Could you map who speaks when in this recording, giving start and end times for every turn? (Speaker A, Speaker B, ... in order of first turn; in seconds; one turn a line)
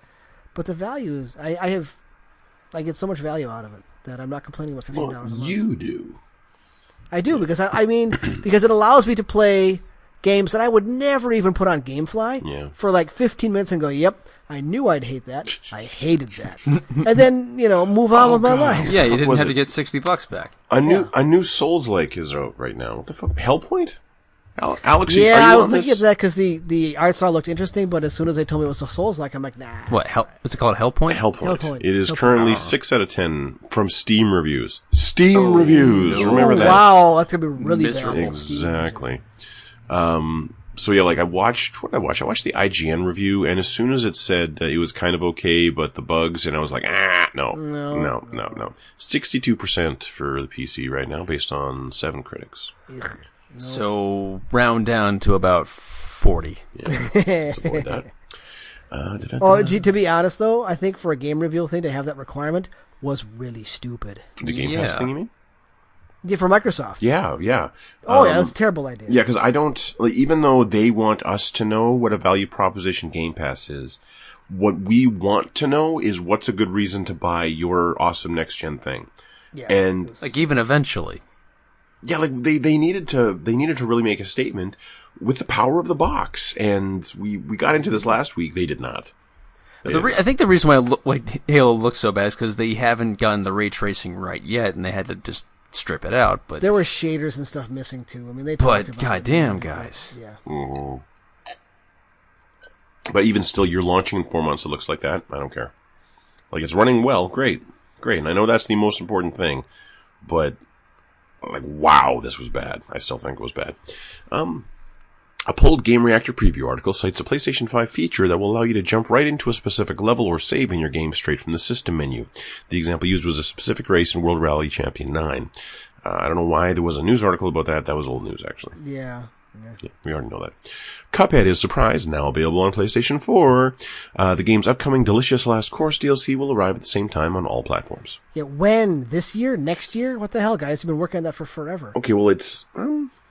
Speaker A: 0.5-2.0
Speaker A: 2.7-5.6
Speaker B: 4.9-6.2
Speaker A: 7.1-19.0
Speaker B: 12.4-12.7
Speaker B: 18.1-19.7
Speaker C: 18.9-20.5
Speaker B: 20.7-24.0
Speaker A: 20.8-21.1
Speaker B: 24.6-26.0
Speaker A: 25.1-30.2
Speaker C: 29.9-31.2
Speaker B: 31.1-37.1
Speaker A: 31.4-32.7
Speaker C: 35.3-37.0
Speaker A: 36.0-39.0
Speaker C: 37.6-38.4
Speaker B: 38.0-39.2
Speaker B: 39.9-52.7
Speaker A: 47.5-48.7
Speaker A: 52.9-53.9
Speaker C: 53.6-56.6
Speaker B: 56.7-58.1
Speaker A: 56.9-58.0
Speaker B: 58.9-59.8
Speaker A: 59.4-64.3
Speaker B: 64.4-65.3
Speaker C: 64.4-65.1
Speaker A: 66.2-67.0
Speaker B: 67.0-79.1
Speaker A: 68.0-69.2
Speaker A: 79.5-80.3
Speaker B: 79.7-80.1
Speaker C: 80.2-81.2
Speaker B: 82.0-89.1
Speaker B: 89.8-90.2
Speaker C: 89.8-96.7
Speaker A: 96.6-100.4
Speaker C: 98.6-100.1
Speaker B: 100.5-101.0
Speaker B: 103.1-105.7
Speaker B: 106.5-109.7
Speaker B: 110.2-110.6
Speaker B: 111.4-114.7
Speaker B: 115.5-125.5
Speaker B: 126.0-128.8
Speaker A: 128.8-129.8
Speaker B: 129.8-138.2
Speaker A: 138.3-141.9
Speaker B: 141.9-143.1